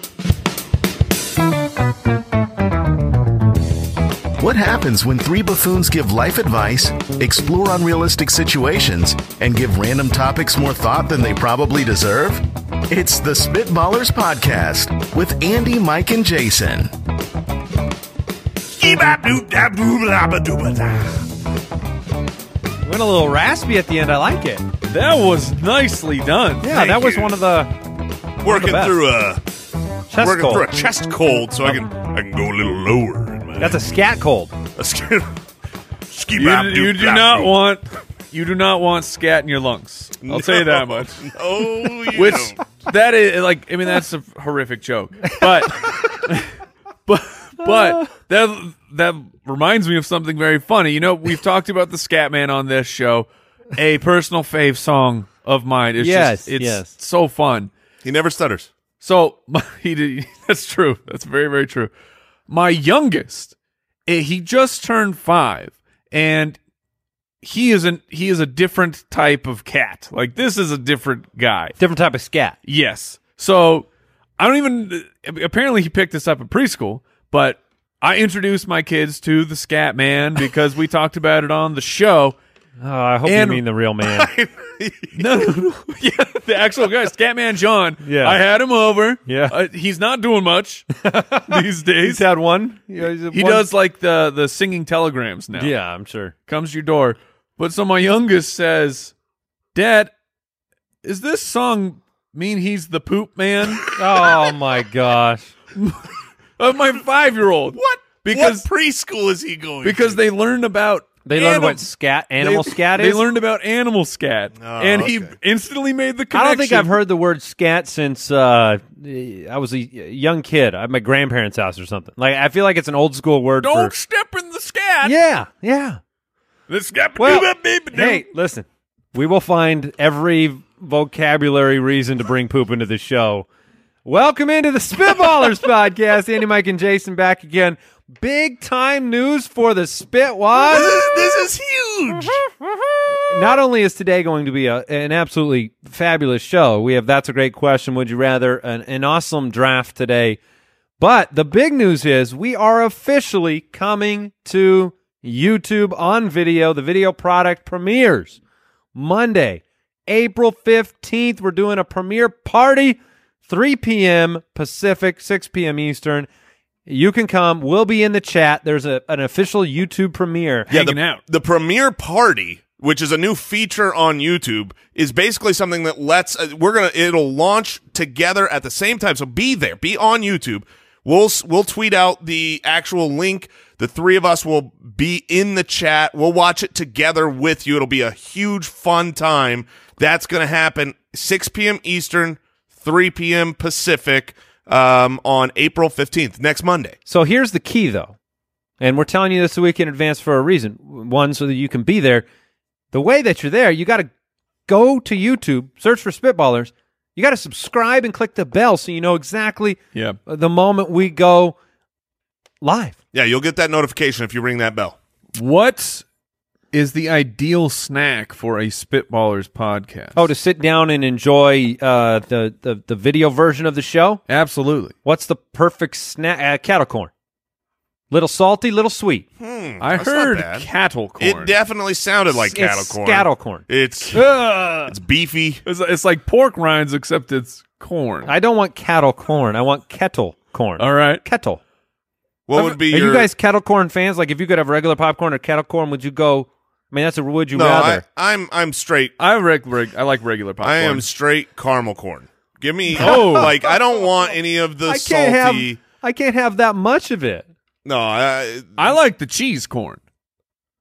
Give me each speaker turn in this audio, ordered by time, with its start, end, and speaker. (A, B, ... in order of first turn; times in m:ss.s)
0:04.4-0:16.9 A
0:18.7-0:21.2 B
0:22.8-0:24.6 C
0:24.9-0:26.9 D
0:26.6-0:27.7 C
0:26.7-0:27.4 B
0:28.4-0:29.4 B
0:28.4-0:29.0 C
0:30.1-0:30.6 C
0:30.2-0:33.8 B
0:33.6-0:34.5 C
0:34.7-0:35.3 B
0:36.1-0:37.5 B
0:36.4-0:41.3 D
0:40.2-0:42.6 B
0:42.1-0:46.5 D
0:47.1-0:57.7 D
0:56.0-0:56.9 C
0:58.0-0:58.7 B
0:59.0-1:01.9 D
1:02.5-1:03.5 D
1:04.1-1:06.6 D
1:07.4-1:11.8 D
1:11.8-1:12.6 C
1:12.6-1:13.9 D
1:14.4-1:22.4 D
1:22.8-1:24.3 C
1:23.2-1:23.6 D
1:24.1-1:25.3 B
1:25.2-1:30.9 D
1:28.0-1:28.4 C
1:29.3-1:29.5 C
1:31.0-1:33.7 C
1:31.5-1:32.2 D
1:33.3-1:35.7 D
1:35.6-1:36.3 C
1:36.5-1:39.1 D
1:39.7-1:40.1 D
1:41.0-1:43.9 D
1:43.9-1:45.5 C
1:45.7-1:48.7 D
1:47.7-1:50.2 B
1:49.8-1:51.8 D
1:51.2-1:53.2 C
1:52.4-1:56.9 D
1:54.6-1:55.4 B
1:56.3-2:03.9 C
2:03.6-2:05.1 D
2:05.0-2:06.0 C
2:06.7-2:08.2 D
2:07.2-2:13.4 C
2:14.0-2:21.0 C
2:20.6-2:22.4 B
2:23.3-2:30.4 C
2:31.0-2:38.4 C
2:38.9-2:46.3 C
2:46.9-2:50.7 C
2:50.7-2:51.2 D
2:50.7-3:17.0 B
3:17.0-3:18.2 C
3:18.8-3:22.2 C
3:22.9-3:24.1 C
3:24.7-3:31.6 C
3:32.6-3:33.0 C
3:33.1-3:35.0 B
3:35.4-3:36.0 D
3:36.7-3:40.3 D
3:40.1-3:44.2 C
3:44.3-3:44.9 D
3:45.0-3:47.1 C
3:48.1-3:49.2 C
3:49.4-3:50.7 B
3:49.8-3:51.5 D
3:51.2-3:54.2 B
3:52.3-3:54.9 C
3:54.9-3:55.6 B
3:55.6-3:58.3 D
3:58.2-4:01.6 C
4:00.8-4:01.2 D
4:02.5-4:03.3 B
4:02.5-4:08.0 C
4:07.5-4:09.1 B
4:09.2-4:11.0 D
4:10.6-4:15.8 B
4:12.9-4:13.7 C
4:13.0-4:13.5 D
4:14.8-4:17.5 C
4:17.8-4:19.0 B
4:18.8-4:20.0 D